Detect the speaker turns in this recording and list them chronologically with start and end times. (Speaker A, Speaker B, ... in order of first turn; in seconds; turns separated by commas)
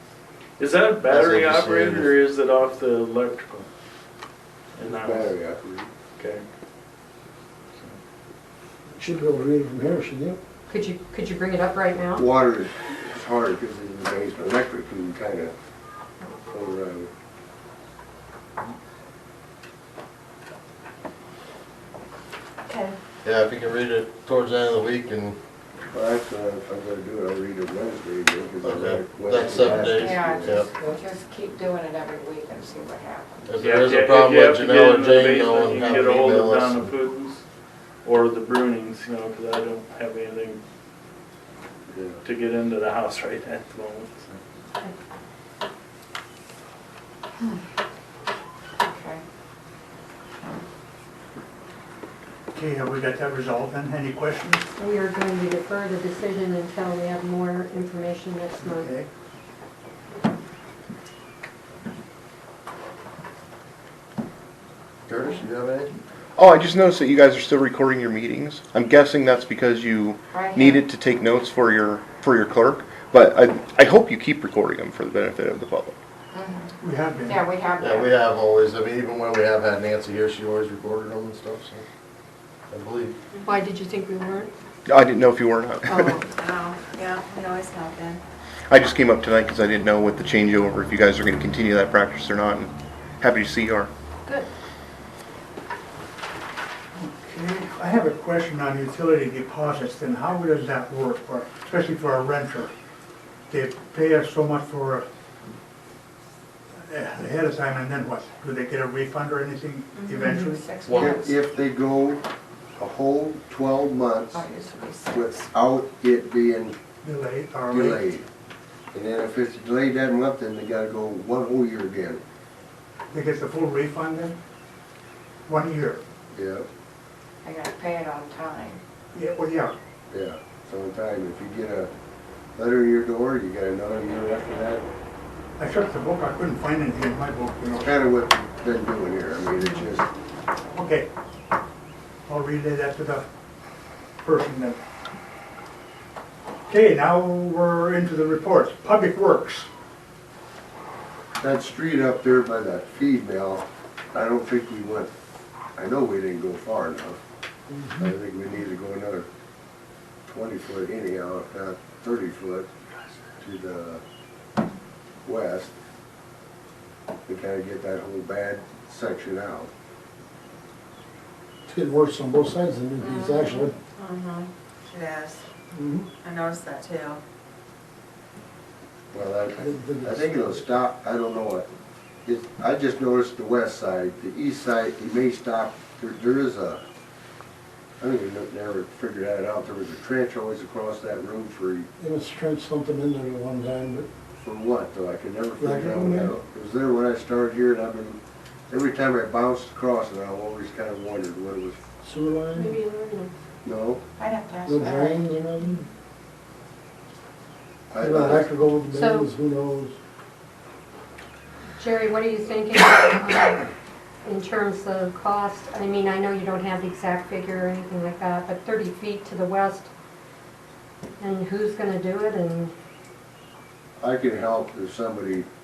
Speaker A: 0.6-3.7, Speaker B: 1.1-2.1, Speaker A: 4.8-5.3, Speaker C: 4.8-5.9, Speaker A: 6.2-6.4, Speaker D: 8.9-10.4, Speaker E: 10.7-12.2, Speaker C: 12.2-15.5, Speaker C: 16.2-17.1, Speaker F: 22.6-23.0, Speaker B: 23.2-25.4, Speaker C: 25.9-30.7, Speaker B: 28.6-30.7, Speaker G: 29.9-33.5, Speaker B: 33.5-36.9, Speaker A: 33.6-37.4, Speaker A: 38.0-40.6, Speaker C: 41.9-42.2, Speaker A: 42.2-44.4, Speaker G: 48.8-49.2, Speaker H: 52.5-54.7, Speaker E: 54.8-58.9, Speaker H: 58.6-59.1, Speaker B: 65.1-65.9, Speaker I: 66.4-76.0, Speaker G: 70.3-70.8, Speaker G: 76.3-76.7, Speaker H: 76.8-77.5, Speaker G: 77.3-78.2, Speaker B: 77.8-81.8, Speaker B: 82.7-83.2, Speaker E: 83.4-84.5, Speaker I: 84.9-86.2, Speaker G: 85.9-86.2, Speaker F: 85.9-88.2, Speaker I: 88.7-93.9, Speaker H: 96.9-102.7, Speaker H: 103.5-105.0, Speaker H: 106.9-110.7, Speaker G: 109.9-111.3, Speaker B: 110.8-111.2, Speaker C: 111.0-112.2, Speaker C: 112.8-114.5, Speaker G: 114.3-115.5, Speaker C: 115.1-116.8, Speaker H: 117.0-118.1, Speaker C: 117.7-118.2, Speaker C: 118.9-122.2, Speaker H: 123.1-124.3, Speaker H: 125.5-126.0, Speaker C: 126.3-126.7, Speaker G: 127.4-128.8, Speaker H: 129.1-129.8, Speaker C: 130.1-131.9, Speaker C: 132.6-134.8, Speaker H: 135.6-137.9, Speaker C: 137.7-140.1, Speaker H: 140.7-141.1, Speaker H: 142.3-143.3, Speaker H: 144.2-144.8, Speaker H: 146.7-149.7, Speaker C: 151.4-155.1, Speaker C: 155.8-157.2, Speaker D: 157.7-158.1, Speaker C: 158.0-159.3, Speaker C: 160.3-162.7, Speaker C: 163.4-164.0, Speaker C: 165.2-165.7, Speaker C: 167.3-169.7, Speaker D: 171.7-173.7, Speaker F: 174.0-175.5, Speaker D: 175.7-176.1, Speaker F: 176.2-177.2, Speaker C: 179.1-181.7, Speaker D: 179.6-180.6, Speaker C: 182.2-186.8, Speaker C: 188.0-191.9, Speaker D: 192.0-194.1, Speaker C: 194.3-201.8, Speaker D: 195.6-196.3, Speaker D: 202.0-202.8, Speaker E: 202.5-203.3, Speaker C: 203.6-204.0, Speaker G: 204.2-205.2, Speaker D: 204.7-205.9, Speaker C: 207.9-208.5, Speaker D: 208.0-209.9, Speaker E: 208.9-209.3, Speaker E: 211.8-213.7, Speaker E: 214.2-219.9, Speaker E: 221.2-222.7, Speaker C: 224.0-225.5